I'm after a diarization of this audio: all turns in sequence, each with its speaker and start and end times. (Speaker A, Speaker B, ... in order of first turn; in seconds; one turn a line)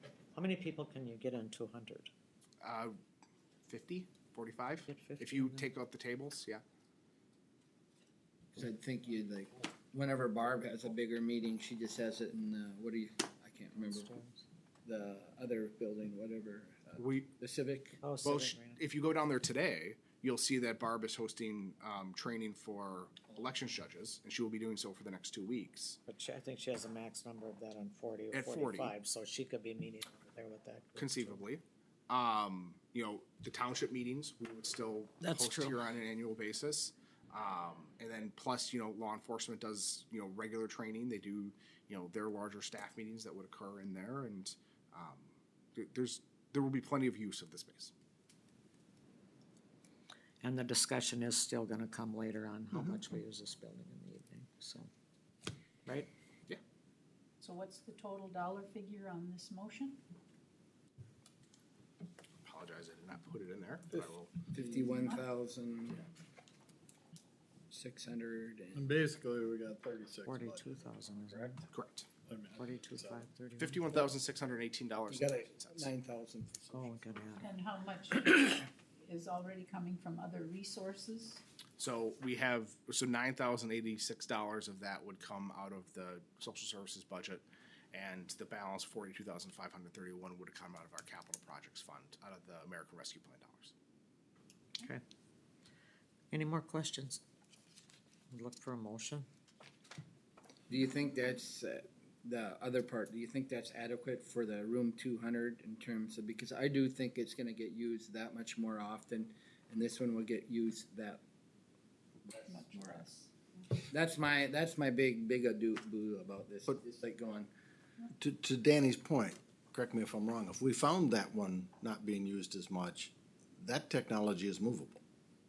Speaker A: 0.3-2.1
Speaker B: 2.6-2.9
Speaker B: 3.7-6.6
Speaker A: 4.9-5.7
Speaker C: 8.5-14.1
Speaker A: 13.8-14.4
Speaker C: 14.8-18.0
Speaker B: 17.0-17.3
Speaker A: 18.0-18.8
Speaker B: 18.2-26.0
Speaker A: 26.1-31.4
Speaker B: 28.3-28.9
Speaker B: 31.0-47.9
Speaker A: 35.2-35.8
Speaker A: 50.4-54.9
Speaker D: 52.7-53.0
Speaker E: 57.4-60.0
Speaker B: 62.4-64.5
Speaker C: 64.5-66.0
Speaker E: 65.0-65.2
Speaker C: 67.7-68.9
Speaker F: 68.7-71.6
Speaker A: 70.2-71.6
Speaker B: 71.7-72.1
Speaker F: 72.3-73.2
Speaker A: 72.6-73.8
Speaker B: 73.6-75.9
Speaker C: 75.1-76.9
Speaker A: 76.7-77.5
Speaker E: 77.4-81.4
Speaker B: 81.8-93.7
Speaker A: 96.3-97.2
Speaker A: 98.3-99.3
Speaker C: 100.7-111.2
Speaker C: 112.3-112.9
Speaker E: 112.4-113.8
Speaker C: 113.9-117.5
Speaker D: 118.2-125.0